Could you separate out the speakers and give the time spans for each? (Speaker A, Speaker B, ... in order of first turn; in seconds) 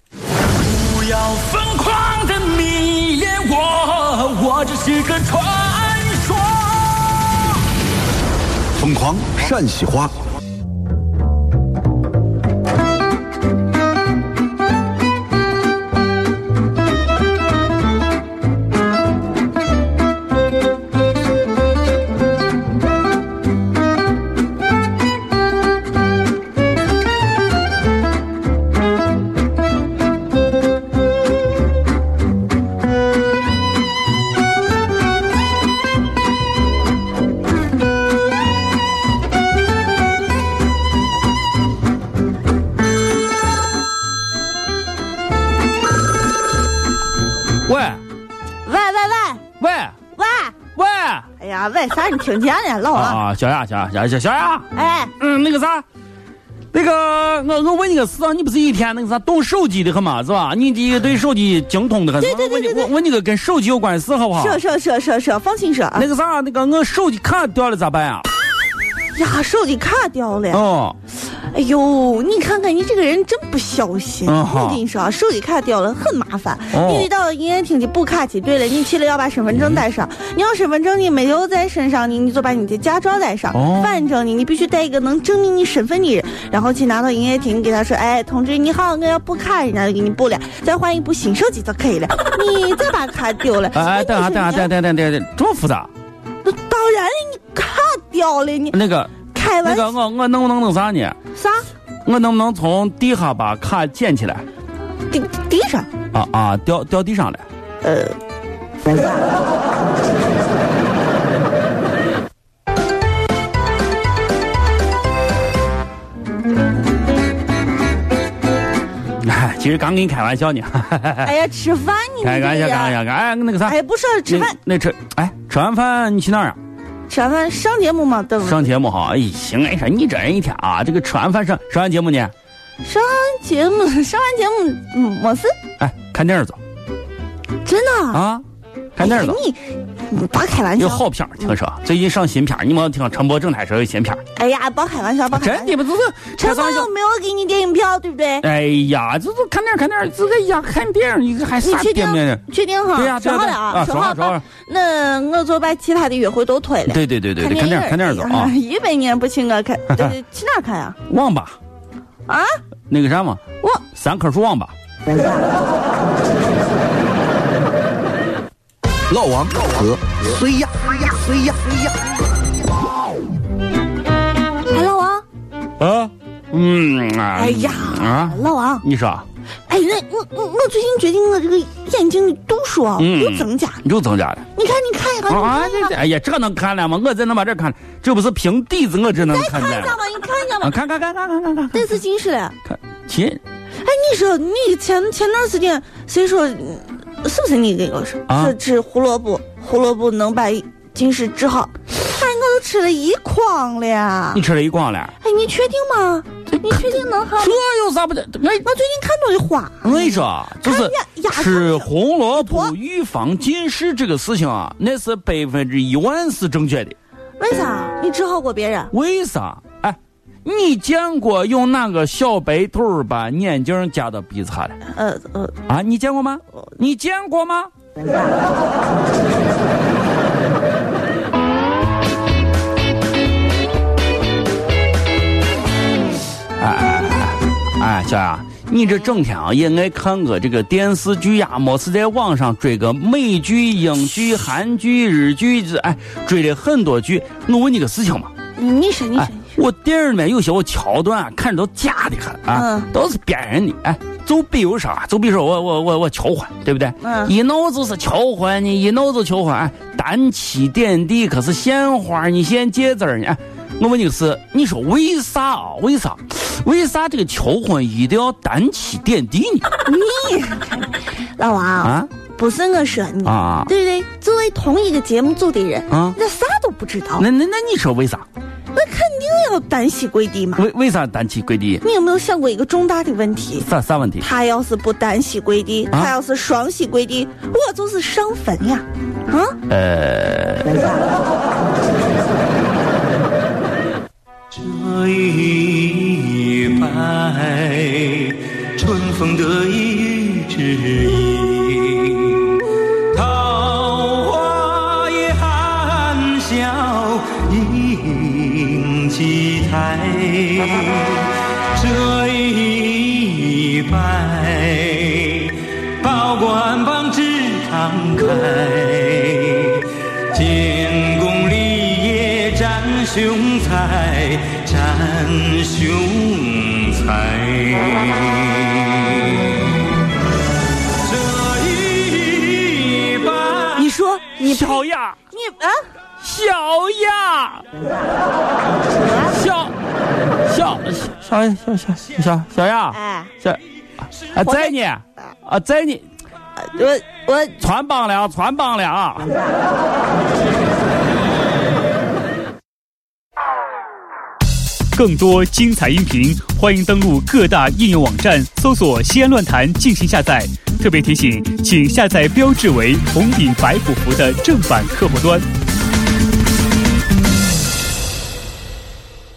Speaker A: 0.7-7.1
Speaker B: 1.7-4.7, 47.7-48.0, 49.6-50.0, 50.8-51.3, 52.9-55.9, 56.7-64.6, 66.0-68.3, 70.5-71.0, 74.2-74.8, 76.7-77.1, 79.5-79.8, 83.5-84.0, 93.7-95.9, 98.7-101.2, 102.0-104.5, 106.1-107.4, 119.2-121.3, 122.2-126.6, 128.4-132.3, 135.8-136.6, 138.1-138.4, 139.0-139.4, 140.8-144.2, 145.3-146.9, 148.4-154.4, 156.9-158.6, 161.1-161.6, 162.9-164.7, 175.8-179.3, 183.0-184.5, 185.3-190.0, 190.6-191.9, 192.7-193.4, 198.3-198.6, 204.3-205.1, 206.5-208.7, 209.8-217.0, 218.9-224.8, 225.7-227.7, 236.6-248.3, 249.2-269.7, 271.8-272.1, 273.2-273.7, 275.9-276.2, 277.2-278.2, 280.6-281.8, 283.6-284.3, 289.7-290.9, 334.4-335.2, 336.2-337.7, 339.3-339.8, 340.4-343.6, 344.2-346.1, 347.6-349.4
Speaker C: 8.8-10.1, 169.1-171.9
Speaker D: 48.6-49.4, 50.1-50.6, 51.4-53.2, 54.7-55.1, 62.2-62.9, 64.3-66.1, 69.1-70.6, 71.2-94.7, 96.4-98.8, 99.3-99.9, 101.4-101.7, 105.1-105.9, 107.8-108.2, 121.2-123.0, 123.7-124.6, 127.1-128.7, 132.8-135.5, 137.6-138.2, 139.0-141.5, 144.3-145.8, 146.4-148.5, 151.6-161.0, 162.3-162.6, 174.7-175.2, 177.3-178.8, 179.7-183.8, 184.6-186.0, 189.2-190.8, 191.7-192.6, 193.8-204.4, 205.2-207.6, 208.6-212.7, 217.4-218.9, 224.9-225.6, 248.6-249.6, 252.5-252.9, 257.0-257.3, 269.8-277.3, 278.7-280.6, 281.8-283.7, 284.2-289.6, 333.7-335.8, 338.9-339.4, 342.9-343.3, 344.4-345.3, 346.6-347.6
Speaker E: 294.5-329.4, 331.0-333.7
Speaker F: 354.9-365.5